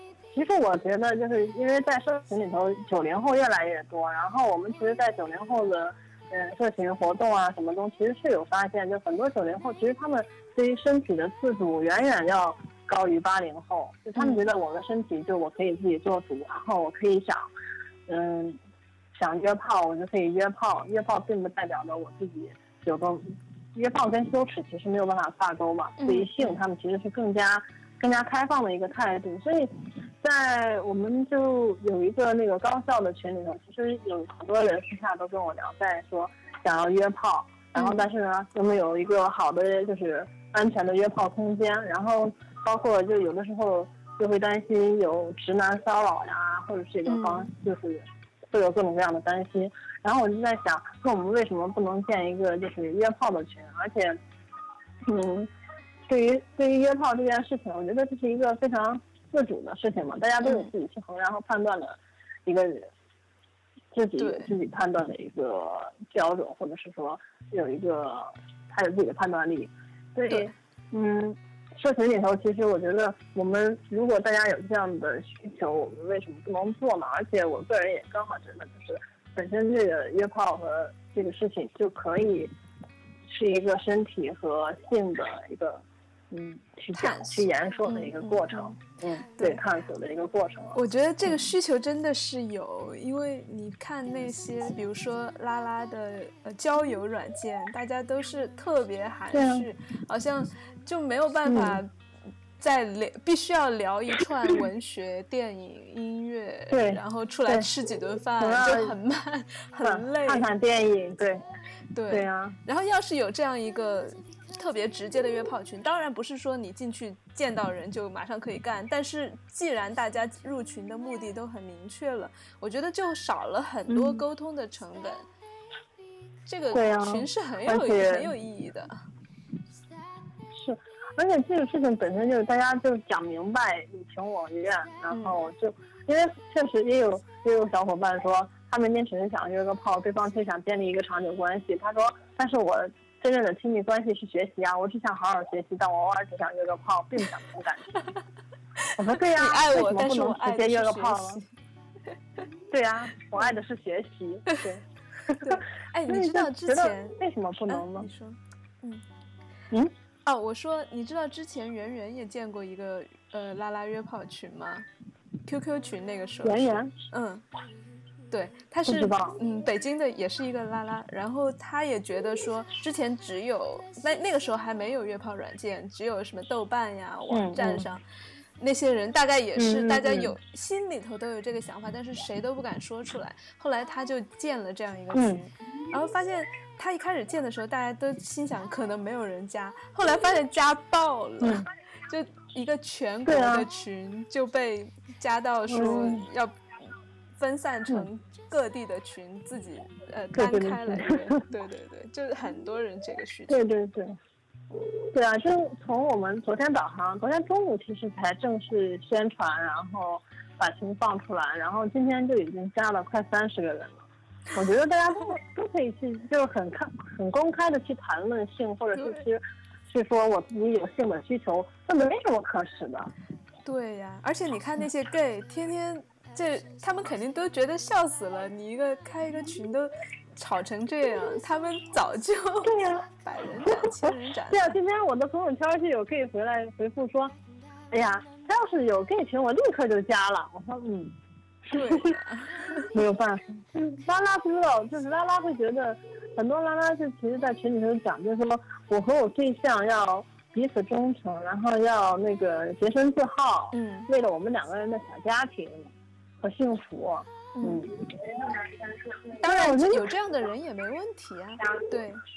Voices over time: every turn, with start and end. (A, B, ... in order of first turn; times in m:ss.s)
0:00.3-0:17.5 A
0:14.2-0:14.4 B
0:18.1-0:18.6 A
0:19.1-0:54.2 A
0:26.0-0:26.6 B
0:37.7-0:38.0 B
0:47.1-0:47.5 B
0:55.0-0:55.5 A
0:56.1-1:02.9 A
1:00.4-1:00.7 B
1:03.9-1:22.5 A
1:04.2-1:04.5 B
1:23.3-1:31.4 A
1:26.9-1:28.7 B
1:29.4-1:29.6 B
1:30.7-1:41.9 B
1:39.3-1:39.7 A
1:41.4-1:41.8 A
1:42.6-1:50.4 B
1:46.7-1:47.7 A
1:48.4-1:48.9 A
1:49.8-1:51.4 A
1:51.9-2:05.3 B
1:52.1-1:52.6 A
2:03.9-2:04.2 A
2:06.4-2:08.9 B
2:06.7-2:08.3 A
2:10.5-2:27.9 A
2:15.1-2:15.4 B
2:28.8-2:31.5 B
2:29.0-2:31.4 A
2:32.7-2:38.1 A
2:35.3-2:37.2 B
2:37.7-2:39.0 B
2:40.2-2:44.9 B
2:45.4-2:47.4 B
2:46.4-2:47.0 A
2:48.3-2:58.0 B
2:48.8-2:49.4 A
2:57.3-2:57.8 A
2:58.6-3:16.6 B
2:59.6-3:00.3 A
3:05.1-3:05.4 A
3:13.2-3:13.7 A
3:15.7-3:16.2 A
3:17.4-3:23.6 B
3:20.3-3:21.2 A
3:23.5-3:24.2 A
3:24.7-3:43.1 A
3:39.0-3:39.2 B
3:43.6-3:54.8 B
3:52.6-3:53.1 A
3:53.6-3:57.3 A
3:57.9-4:02.1 A
4:01.7-4:02.9 B
4:02.9-4:20.2 A
4:13.7-4:14.1 B
4:17.5-4:17.8 B
4:19.4-4:22.2 B